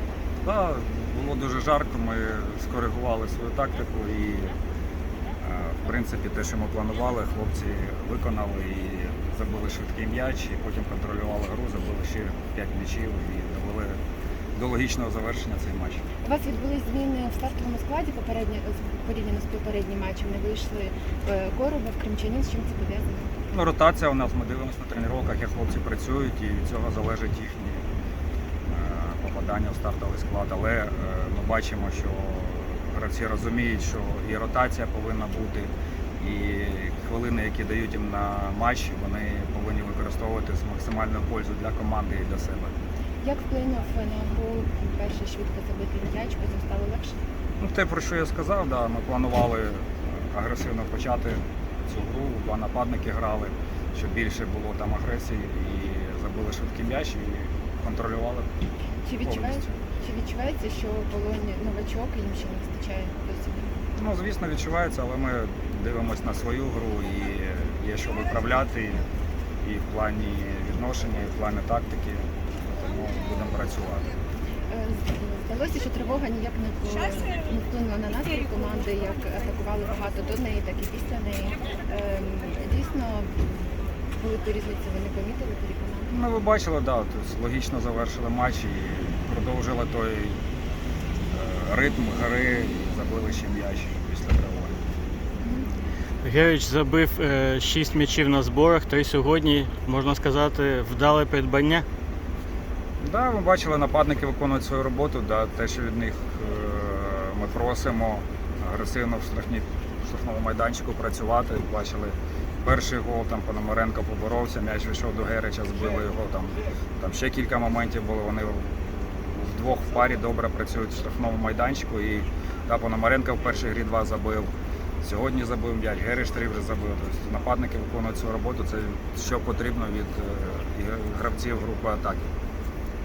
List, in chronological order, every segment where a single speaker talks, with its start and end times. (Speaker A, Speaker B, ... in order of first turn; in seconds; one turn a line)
Speaker A: 0.4-4.6
Speaker A: 5.4-14.0
Speaker A: 14.6-16.0
Speaker B: 16.2-23.4
Speaker A: 23.5-27.8
Speaker A: 28.7-42.7
Speaker B: 43.2-47.2
Speaker A: 47.6-58.5
Speaker B: 59.0-63.7
Speaker A: 59.2-59.7
Speaker A: 64.0-69.0
Speaker A: 69.6-74.1
Speaker B: 74.7-86.1
Speaker A: 86.1-90.4
Speaker A: 91.3-94.7
Speaker B: 95.4-95.7
Speaker C: 96.2-101.8
Speaker A: 103.0-124.5
Speaker A: 125.0-132.3